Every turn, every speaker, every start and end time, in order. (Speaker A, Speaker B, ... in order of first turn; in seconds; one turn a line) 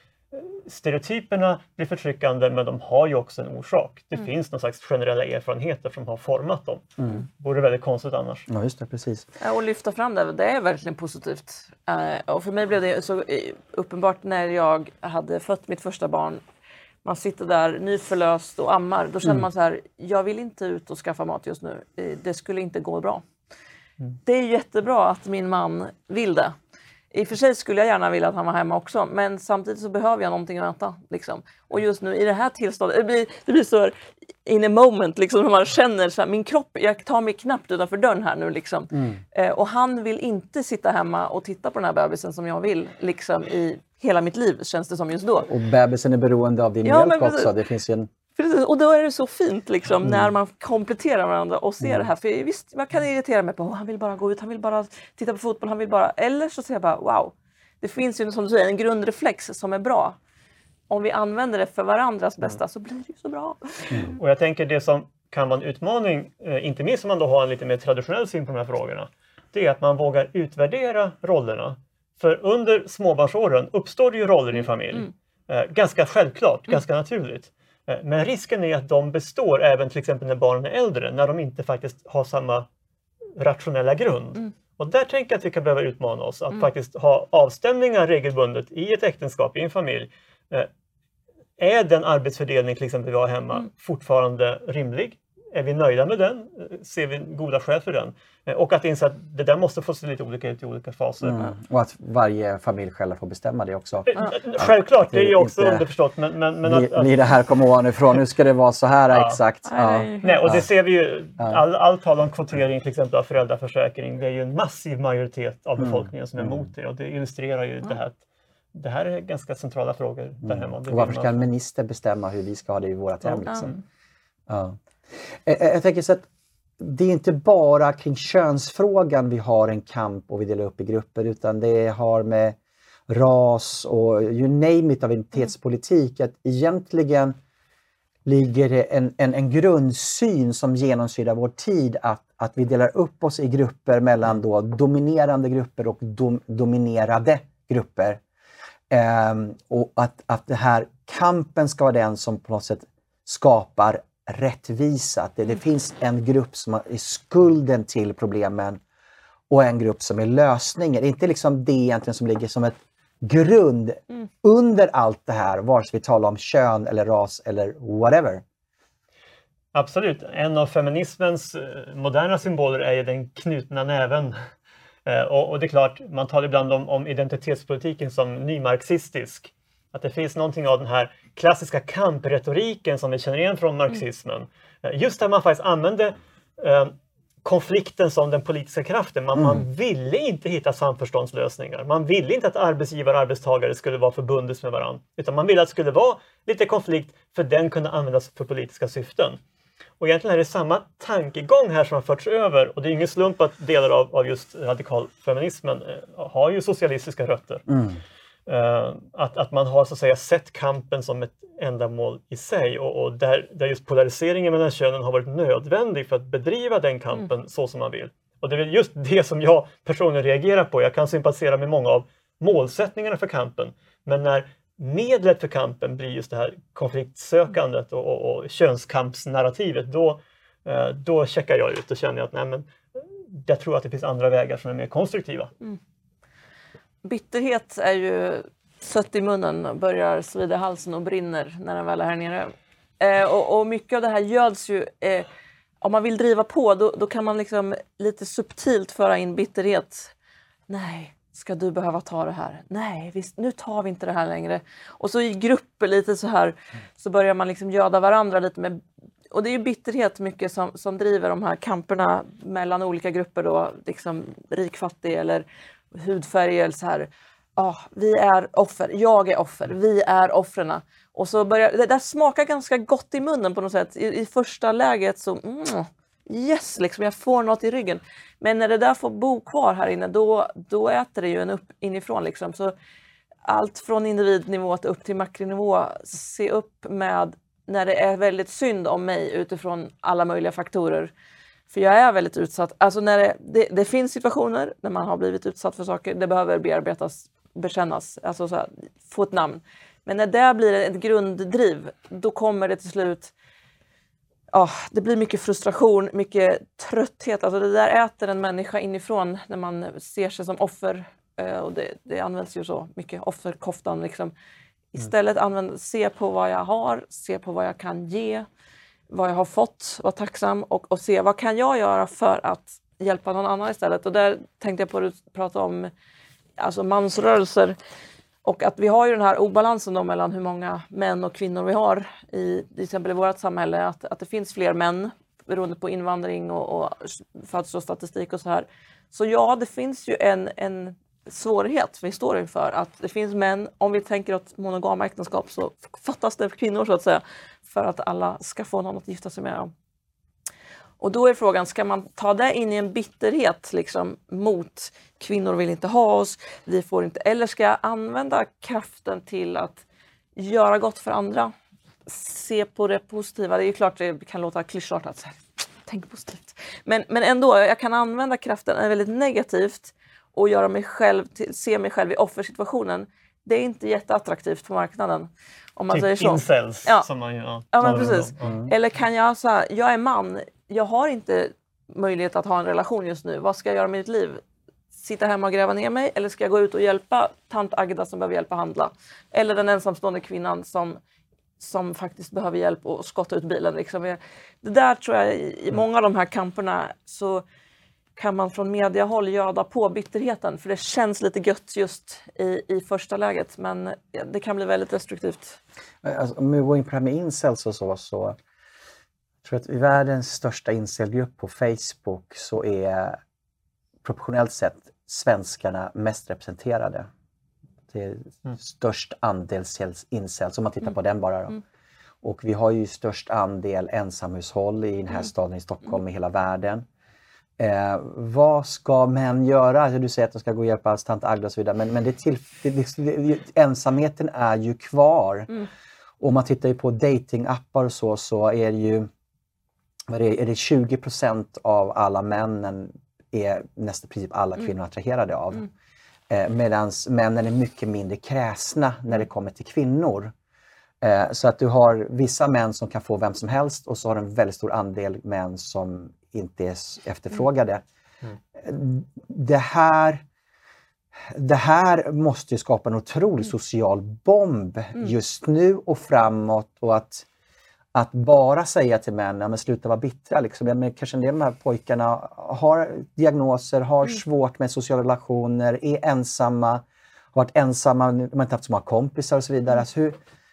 Speaker A: 0.3-6.8
Speaker B: 7.0-7.2
Speaker A: 7.4-8.5
Speaker B: 8.5-9.3
Speaker C: 9.4-16.4
Speaker C: 17.0-23.2
Speaker C: 24.2-26.6
Speaker C: 27.1-33.9
Speaker C: 34.4-45.5
Speaker B: 38.9-39.2
Speaker B: 45.5-48.1
Speaker C: 46.8-47.5
Speaker C: 48.4-60.2
Speaker B: 50.0-50.3
Speaker B: 51.8-52.1
Speaker C: 60.9-64.1
Speaker A: 64.1-82.7
Speaker A: 83.4-90.7
Speaker A: 91.6-101.5
Speaker B: 101.2-105.8
Speaker A: 104.1-107.1
Speaker B: 106.6-110.7
Speaker A: 109.1-109.4
Speaker C: 109.7-110.4
Speaker A: 110.2-118.2
Speaker B: 115.8-116.7
Speaker A: 118.7-121.4
Speaker B: 120.4-123.7
Speaker B: 124.5-126.2
Speaker B: 126.8-132.6
Speaker B: 133.1-137.3
Speaker B: 138.2-148.2
Speaker B: 148.9-158.8
Speaker B: 159.5-168.4
Speaker A: 169.7-174.3
Speaker A: 175.1-186.9
Speaker A: 187.4-199.4
Speaker B: 189.3-189.6
Speaker A: 200.0-207.7
Speaker B: 207.7-208.0
Speaker A: 208.5-235.5
Speaker C: 237.0-245.3
Speaker C: 245.8-250.1
Speaker C: 250.7-282.7
Speaker C: 283.4-291.1
Speaker C: 291.7-303.3
Speaker C: 304.5-314.3
Speaker C: 314.9-318.4
Speaker C: 319.1-325.9
Speaker C: 326.6-327.8
Speaker C: 328.4-349.7
Speaker C: 351.0-359.8
Speaker C: 360.4-361.5
Speaker C: 362.1-377.1
Speaker A: 375.9-378.5
Speaker C: 377.7-384.4
Speaker B: 378.4-378.7
Speaker C: 384.9-391.0
Speaker C: 391.6-397.4
Speaker C: 398.1-405.6
Speaker B: 406.0-408.4
Speaker B: 409.4-413.2
Speaker B: 414.0-417.1
Speaker B: 417.9-421.6
Speaker B: 422.2-426.8
Speaker B: 427.6-435.6
Speaker B: 436.2-439.1
Speaker B: 440.1-445.7
Speaker B: 446.3-450.3
Speaker B: 451.0-457.8
Speaker B: 458.5-460.2
Speaker B: 461.2-467.2
Speaker B: 467.9-480.2